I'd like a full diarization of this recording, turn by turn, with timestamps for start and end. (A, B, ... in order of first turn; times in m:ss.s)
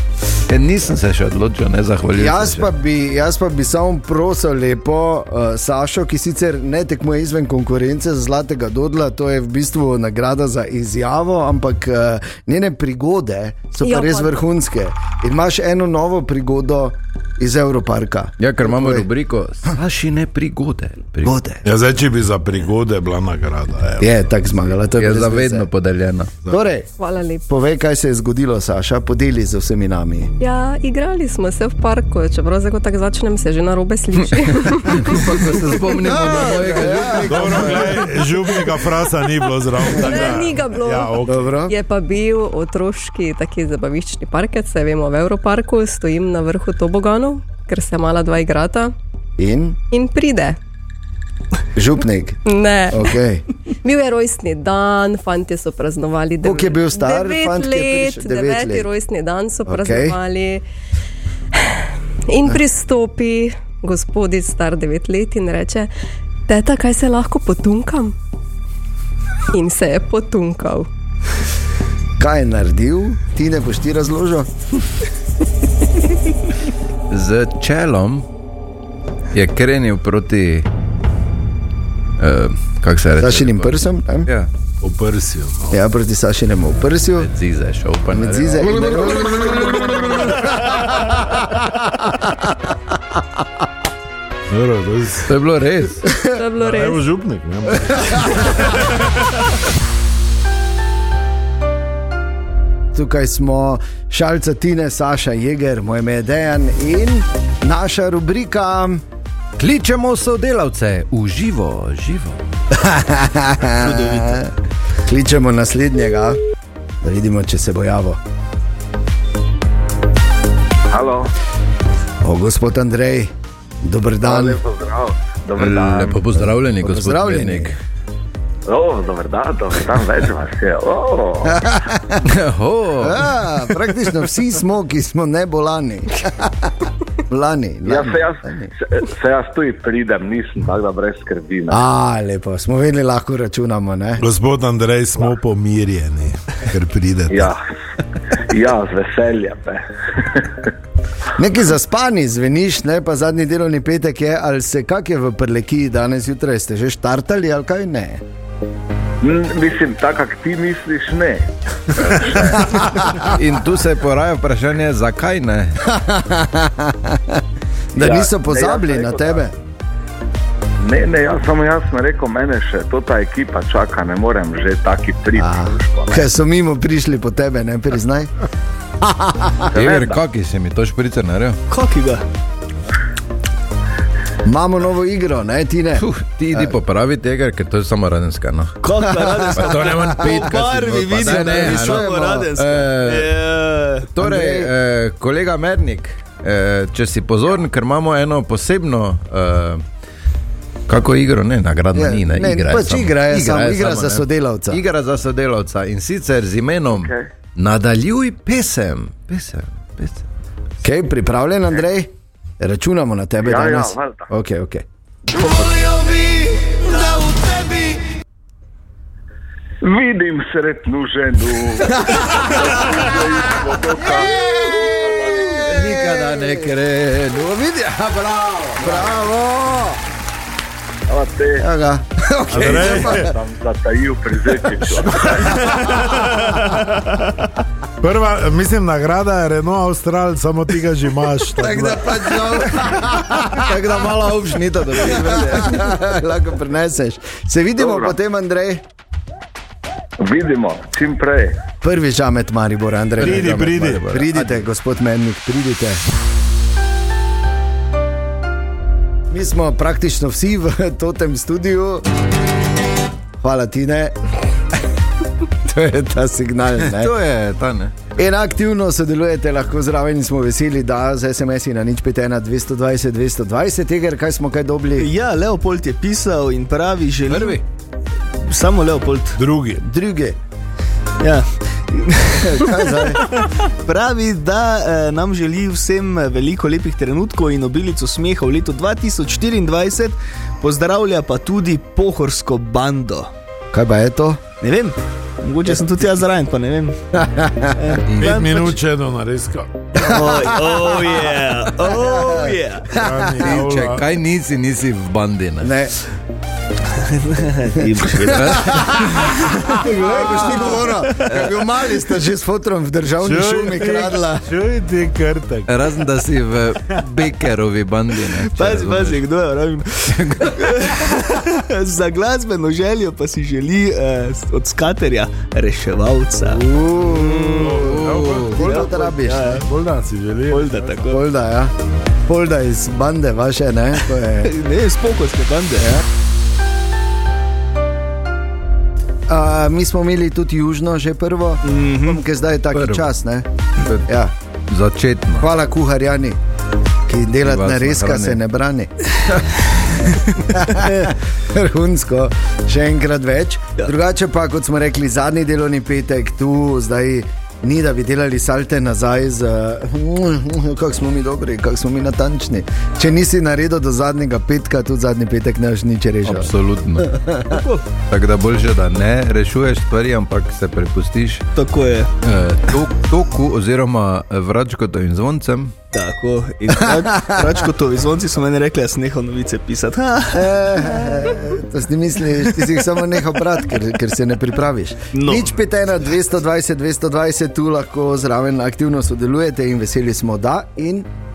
0:00.5-0:02.7 A
0:02.1-0:19.1 B
0:13.8-0:14.4 C
0:18.4-0:21.4 A
0:21.2-0:21.6 B
0:21.6-0:24.1 D
0:24.0-0:25.7 B
0:25.0-0:26.3 A
0:26.5-0:26.9 B
0:27.0-0:27.4 C
0:27.5-0:30.3 B
0:30.4-0:35.5 C
0:34.2-0:38.1 A
0:36.0-0:38.1 B
0:37.2-0:41.6 D
0:38.4-0:39.0 C
0:39.8-0:48.9 C
0:40.1-0:40.4 B
0:41.2-0:41.7 B
0:49.4-0:49.8 B
0:49.9-0:50.6 C
0:51.7-0:53.4 B
0:52.4-0:53.1 C
0:53.8-1:00.6 C
0:56.4-0:58.9 B
0:59.7-1:00.2 B
1:01.5-1:05.9 C
1:06.5-1:08.1 C
1:09.5-1:10.9 C
1:12.2-1:14.5 B
1:17.1-1:18.3 A
1:19.3-1:20.7 A
1:22.2-1:24.5 A
1:23.2-1:24.3 B
1:24.8-1:25.8 D
1:25.7-1:27.3 B
1:27.2-1:29.0 A
1:28.1-1:32.7 B
1:34.5-1:35.3 D
1:35.3-1:36.1 A
1:36.2-1:37.0 C
1:36.6-1:39.1 D
1:42.9-1:49.0 B
1:49.6-1:52.4 A
1:52.7-1:56.4 B
1:53.7-1:54.4 E
1:57.0-1:58.2 B
2:00.9-2:01.3 F
2:02.2-2:04.6 B
2:04.2-2:06.2 F
2:05.6-2:07.8 A
2:06.4-2:07.7 B
2:08.7-2:11.7 F
2:11.4-2:12.2 B
2:12.2-2:13.4 A
2:13.0-2:18.7 B
2:17.8-2:21.8 F
2:21.7-2:24.2 B
2:24.2-2:27.5 D
2:27.3-2:27.6 F
2:28.3-2:30.7 F
2:31.4-2:38.2 B
2:39.2-2:42.8 F
2:42.7-2:43.1 B
2:43.2-2:45.8 A
2:45.8-2:47.4 B
2:47.9-2:49.5 B
2:48.0-2:49.4 F
2:50.8-2:56.2 F
2:55.4-2:58.3 B
2:59.0-2:59.6 B
2:59.7-3:00.2 F
2:59.7-3:01.6 A
3:01.7-3:02.2 E
3:04.4-3:06.7 B
3:06.0-3:08.8 A
3:08.8-3:14.1 E
3:09.0-3:10.5 B
3:09.5-3:13.3 A
3:11.2-3:12.5 B
3:14.1-3:19.8 A
3:14.2-3:14.7 B
3:20.9-3:30.3 A
3:21.9-3:24.8 B
3:26.9-3:27.3 F
3:30.8-3:34.8 B
3:33.4-3:34.3 F
3:39.8-3:46.0 F
3:41.9-3:42.5 B
3:44.0-3:46.7 B
3:45.7-3:49.0 A
3:48.8-3:50.0 B
3:51.1-3:51.7 F
3:51.6-3:53.3 B
3:52.5-3:53.3 D
3:52.6-3:56.0 F
3:55.3-3:56.3 B
3:58.0-4:02.6 D
4:01.5-4:03.6 B
4:03.4-4:05.9 A
4:05.0-4:08.8 B
4:07.8-4:08.2 F
4:10.2-4:11.6 F
4:11.8-4:16.0 B
4:13.2-4:14.5 A
4:13.2-4:14.0 D
4:19.3-4:22.0 B
4:23.4-4:24.2 B
4:25.6-4:27.1 B
4:26.8-4:28.0 A
4:28.2-4:35.1 B
4:35.0-4:37.6 E
4:37.3-4:37.6 A
4:38.4-4:39.4 E
4:39.4-4:39.8 D
4:39.8-4:40.4 B
4:41.2-4:53.3 E
4:42.4-4:43.3 B
4:53.7-4:54.4 B
4:54.6-4:57.0 E
4:57.1-4:57.8 B
4:57.8-4:58.8 E
4:58.1-4:58.4 A
4:58.2-5:00.2 D
5:00.0-5:01.1 B
5:00.0-5:02.9 E
5:01.8-5:03.4 B
5:02.9-5:04.1 D
5:03.4-5:05.7 A
5:05.6-5:06.0 B
5:06.9-5:08.9 E
5:07.8-5:14.5 B
5:08.3-5:09.1 A
5:09.8-5:11.3 E
5:13.2-5:15.9 D
5:15.7-5:19.2 A
5:18.3-5:29.7 E
5:20.1-5:20.8 A
5:26.4-5:27.8 B
5:27.6-5:28.8 D
5:27.8-5:28.6 A
5:28.5-5:29.6 B
5:29.5-5:31.1 D
5:30.5-5:31.2 E
5:31.1-5:31.7 B
5:32.3-5:34.6 B
5:34.4-5:36.0 E
5:35.8-5:36.0 B
5:39.3-5:43.5 B
5:41.6-5:42.2 E
5:42.7-5:43.1 A
5:44.0-5:44.3 B
5:44.7-5:45.5 A
5:45.4-5:46.4 B
5:47.1-5:49.1 B
5:47.4-5:48.4 A
5:50.5-6:07.6 B
5:50.7-5:51.0 E
6:06.2-6:07.1 A
6:07.5-6:07.8 E
6:08.1-6:11.4 A
6:11.5-6:12.1 E
6:12.2-6:15.7 A
6:15.9-6:21.2 E
6:16.8-6:17.6 B
6:20.3-6:31.1 B
6:25.1-6:25.6 E